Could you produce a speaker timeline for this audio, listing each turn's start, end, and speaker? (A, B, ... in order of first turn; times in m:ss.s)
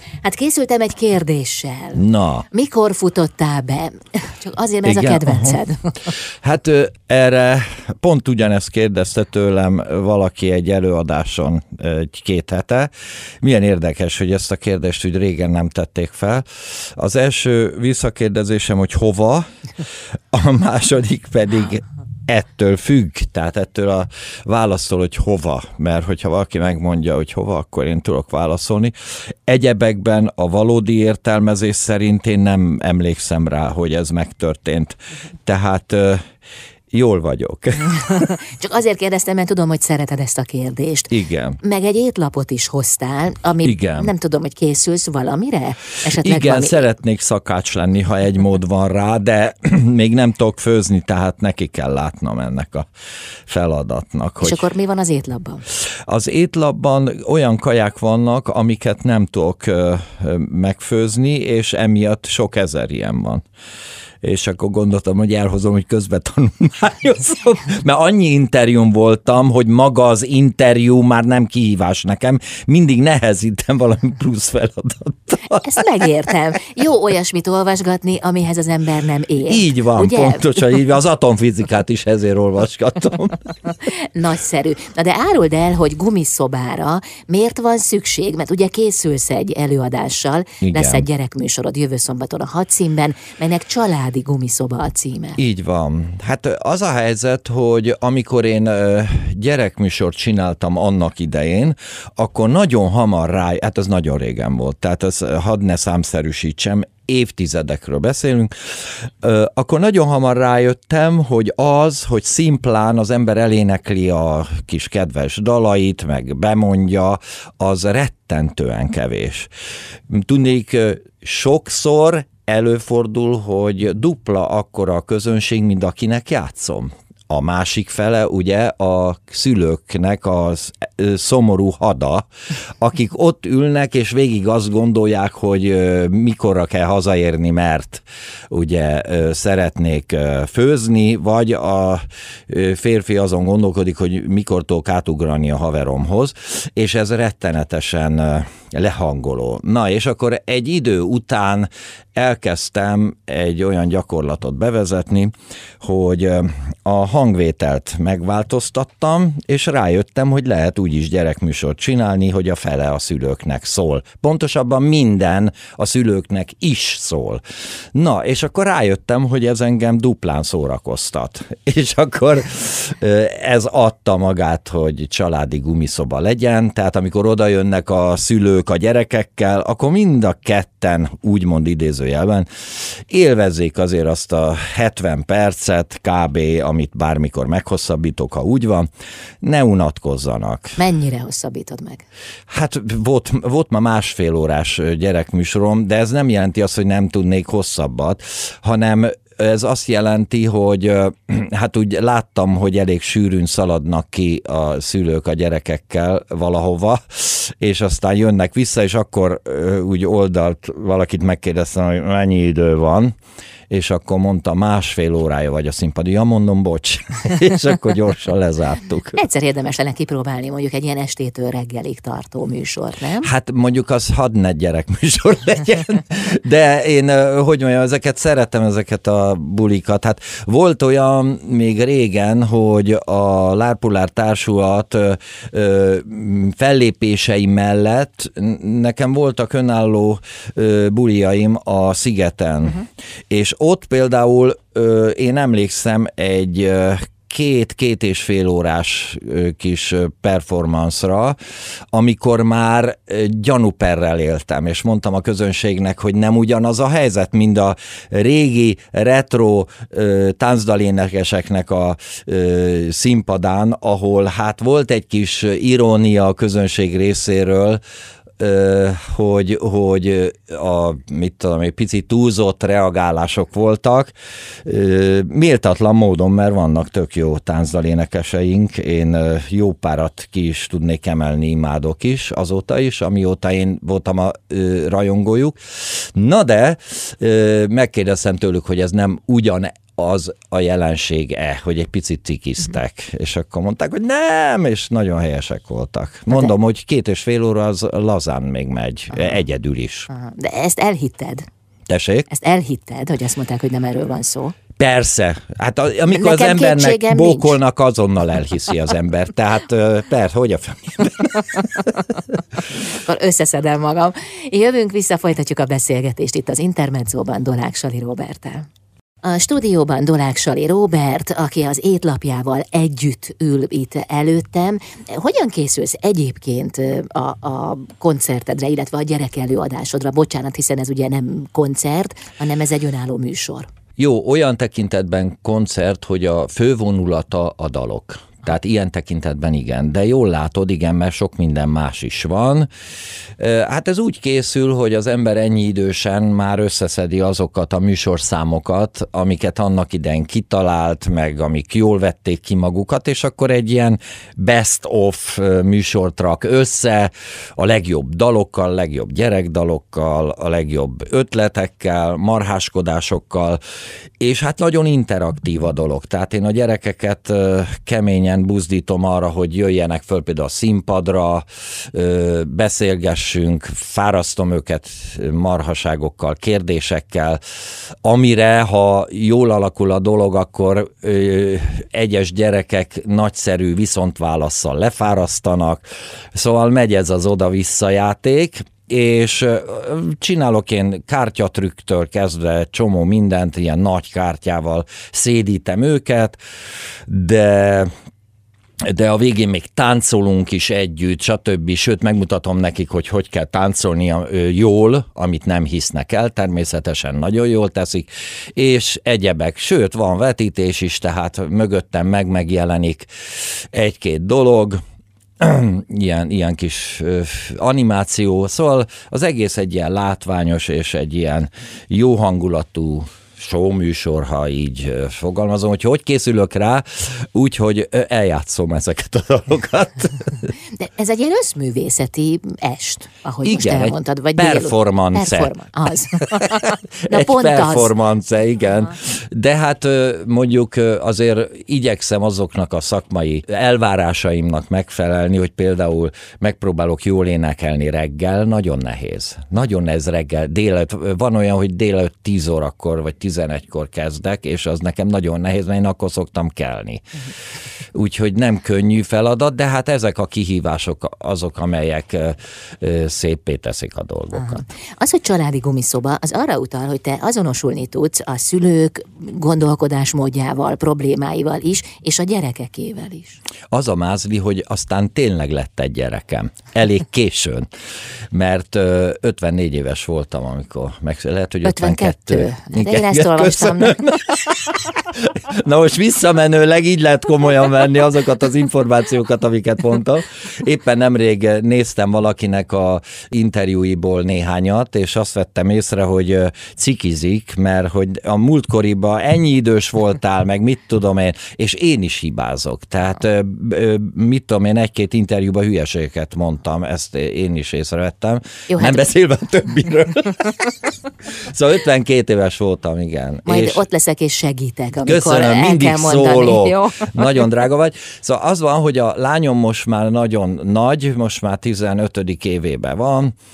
0:00.2-0:06.1 A
0:02.0-0:02.4 B
0:04.8-0:12.9 B
0:13.4-0:36.2 B
0:36.9-0:38.3 B
0:37.9-0:46.8 A
0:41.1-0:41.6 B
0:43.6-0:44.1 B
0:46.1-0:52.9 B
0:53.5-0:54.7 B
0:54.4-0:55.6 A
0:55.7-1:03.4 B
1:04.2-1:15.8 B
1:15.5-1:20.6 A
1:19.5-1:23.5 B
1:23.8-1:35.4 A
1:30.6-1:31.0 B
1:35.4-1:59.5 B
2:00.1-2:47.4 B
2:47.9-3:08.9 B
3:09.4-3:10.8 B
3:10.8-3:12.0 A
3:12.5-3:33.1 B
3:33.7-3:39.2 B
3:39.1-3:43.3 A
3:43.2-4:11.4 B
4:11.9-4:27.8 B
4:28.4-4:34.1 B
4:34.6-5:00.1 B
5:00.1-5:01.5 A
5:01.9-5:02.3 B
5:02.3-5:04.6 A
5:04.8-5:11.9 B
5:06.1-5:07.6 A
5:12.8-5:18.7 A
5:19.2-5:33.7 A
5:34.0-5:42.7 B
5:43.4-6:03.6 B
6:04.2-6:17.4 B
6:18.0-6:36.4 B
6:37.1-6:37.9 B
6:38.8-6:54.8 B
6:55.4-7:10.5 B
7:10.7-7:17.9 A
7:13.4-7:15.5 B
7:16.4-7:37.2 B
7:37.9-7:44.6 B
7:44.3-7:53.4 A
7:53.7-7:57.7 B
7:58.3-8:33.8 B
8:01.6-8:04.1 A
8:28.7-8:29.1 A
8:33.5-8:37.1 A
8:35.0-8:43.3 B